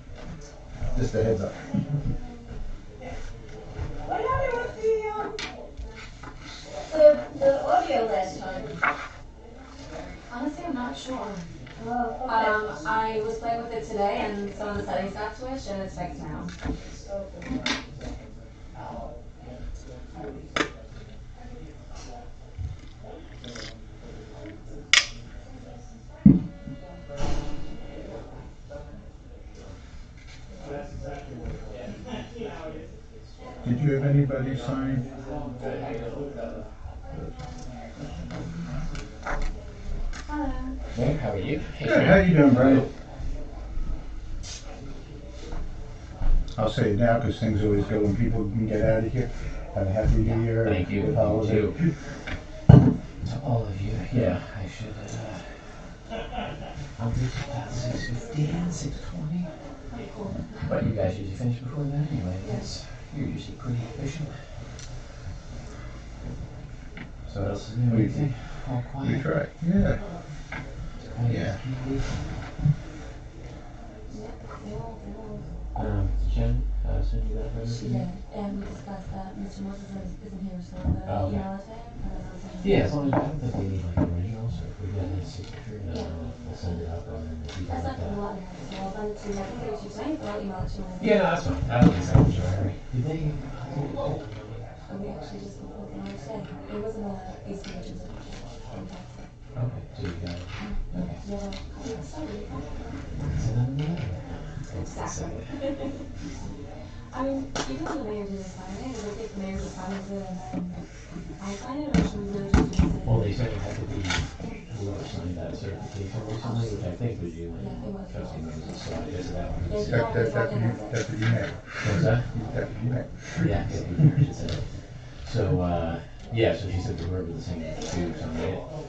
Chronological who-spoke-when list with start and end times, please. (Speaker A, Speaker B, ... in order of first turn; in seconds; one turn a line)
Speaker A: 0.9-1.6
Speaker B: 4.0-5.3
Speaker B: 6.8-8.8
Speaker C: 10.3-11.5
Speaker B: 11.8-12.6
Speaker C: 12.2-16.5
Speaker A: 33.6-35.0
Speaker C: 40.3-40.7
Speaker D: 40.9-42.9
Speaker A: 41.8-42.9
Speaker A: 46.5-51.8
Speaker D: 50.2-51.8
Speaker D: 53.2-55.5
Speaker D: 57.0-59.5
Speaker C: 59.9-60.8
Speaker D: 60.7-64.3
Speaker C: 62.4-62.7
Speaker A: 67.3-68.4
Speaker D: 67.3-70.0
Speaker A: 68.9-70.0
Speaker D: 71.0-72.3
Speaker A: 71.3-71.6
Speaker C: 74.1-75.4
Speaker D: 75.8-78.1
Speaker C: 77.6-83.2
Speaker D: 81.0-81.5
Speaker D: 82.6-88.2
Speaker C: 85.8-86.1
Speaker C: 87.7-91.2
Speaker D: 91.0-94.5
Speaker C: 94.9-99.3
Speaker D: 99.5-101.2
Speaker C: 100.6-103.0
Speaker D: 103.2-105.6
Speaker C: 104.7-105.9
Speaker C: 107.1-110.8
Speaker C: 111.4-113.4
Speaker D: 113.0-120.2
Speaker C: 116.4-119.1
Speaker C: 119.7-121.2
Speaker A: 119.8-123.6
Speaker D: 121.8-122.3
Speaker D: 123.4-128.7